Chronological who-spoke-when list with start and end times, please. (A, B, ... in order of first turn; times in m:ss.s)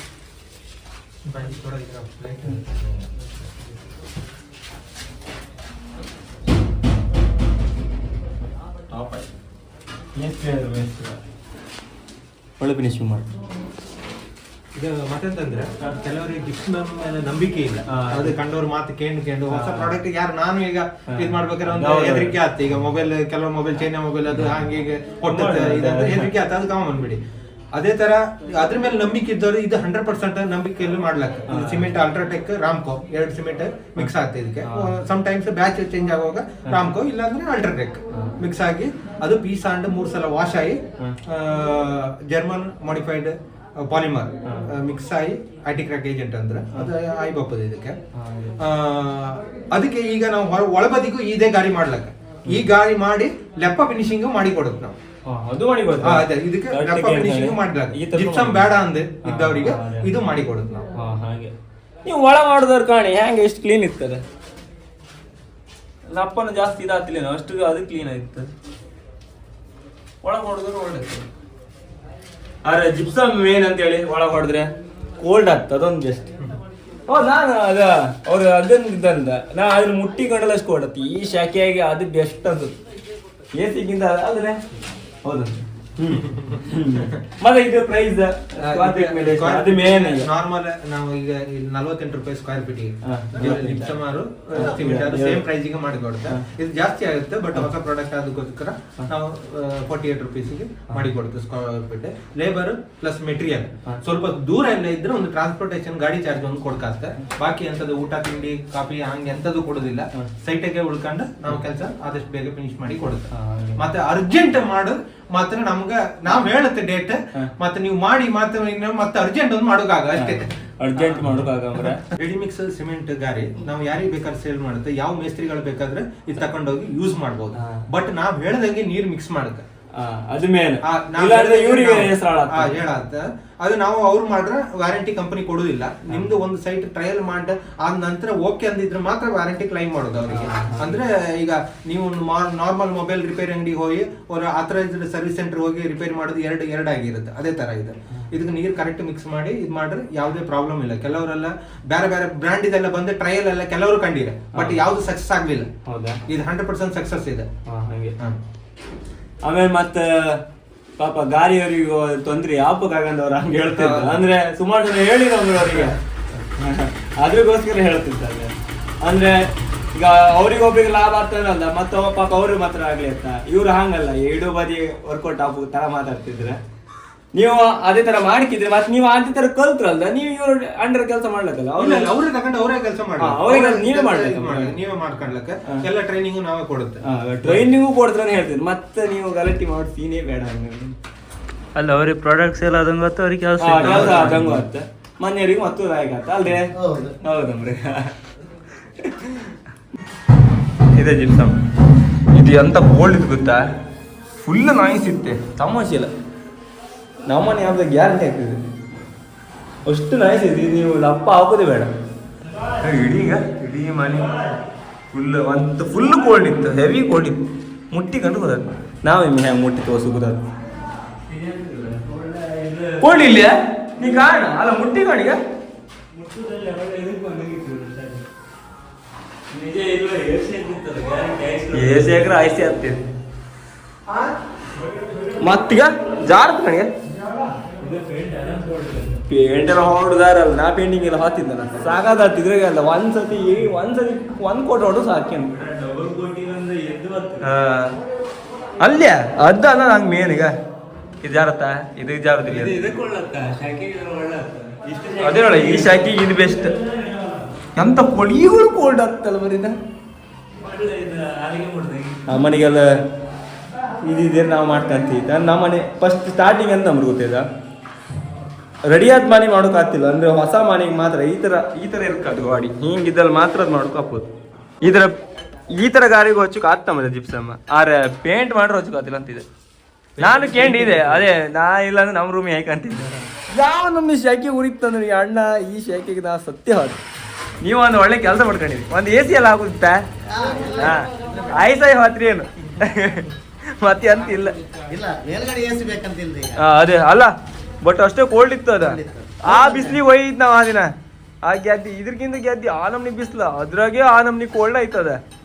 0:01.2-0:03.3 A
0:08.9-0:09.3 B
0:10.1-0:11.2 B
0:12.6-0:13.3 B
0:14.7-0:27.2 A
0:17.9-0:18.3 B
0:19.5-0:20.0 B
0:21.1-0:22.3 B
0:24.3-0:24.6 B
0:25.3-0:26.3 B
0:27.7-0:48.0 A
0:31.5-0:31.9 B
0:34.6-0:34.9 B
0:38.1-0:38.4 B
0:48.1-0:48.6 B
0:48.6-0:55.0 A
0:55.2-0:58.7 B
0:56.0-1:00.9 A
0:59.2-1:00.1 B
1:00.9-1:01.5 B
1:02.0-1:04.2 B
1:06.1-1:08.5 B
1:10.2-1:11.3 B
1:12.6-1:16.3 B
1:17.1-1:22.7 B
1:23.5-1:24.6 B
1:25.2-1:30.3 B
1:26.1-1:27.1 A
1:28.6-2:09.6 A
1:33.0-1:34.0 B
1:34.5-1:35.4 B
1:53.3-1:53.8 B
2:00.1-2:02.0 B
2:07.5-2:07.8 B
2:09.9-2:12.8 B
2:10.8-2:35.7 A
2:16.1-2:16.3 B
2:20.3-2:21.0 B
2:34.5-2:34.8 B
2:35.8-2:36.2 B
2:36.3-2:37.5 A
2:37.6-2:38.2 B
2:39.4-2:40.4 B
2:41.0-2:46.0 B
2:43.7-2:44.2 A
2:46.6-2:56.6 B
2:57.3-3:02.1 B
3:01.8-3:07.6 A
3:03.2-3:04.7 B
3:07.0-3:11.0 B
3:11.7-3:14.5 C
3:13.6-3:18.1 B
3:13.8-3:14.2 A
3:16.8-3:17.2 D
3:19.0-3:19.5 B
3:20.9-3:21.6 B
3:22.3-3:23.7 B
3:24.4-3:26.1 B
3:27.3-3:28.6 B
3:29.8-3:31.9 B
3:32.8-3:34.4 B
3:35.1-3:40.4 B
3:41.3-3:43.0 C
3:43.0-3:45.4 B
3:46.2-3:48.2 C
3:49.5-3:52.1 C
3:51.7-3:53.0 B
3:55.4-3:56.9 B
3:57.8-3:59.1 C
3:59.2-4:05.8 B
4:05.7-4:07.4 C
4:07.4-4:08.0 B
4:08.8-4:10.5 B
4:11.2-4:12.8 B
4:12.6-4:16.0 C
4:15.2-4:16.7 B
4:16.8-4:17.2 C
4:17.7-4:19.8 B
4:20.6-4:22.2 C
4:22.2-4:22.9 B
4:24.0-4:27.4 B
4:28.9-4:34.3 B
4:34.8-4:35.2 B
4:35.7-4:39.4 B
4:40.2-4:41.3 A
4:40.2-4:47.0 B
4:47.6-4:50.0 B
4:50.3-4:51.6 D
4:50.7-4:54.6 B
4:54.9-4:56.6 D
4:56.6-5:00.9 B
4:58.8-5:00.0 D
5:01.4-5:05.2 B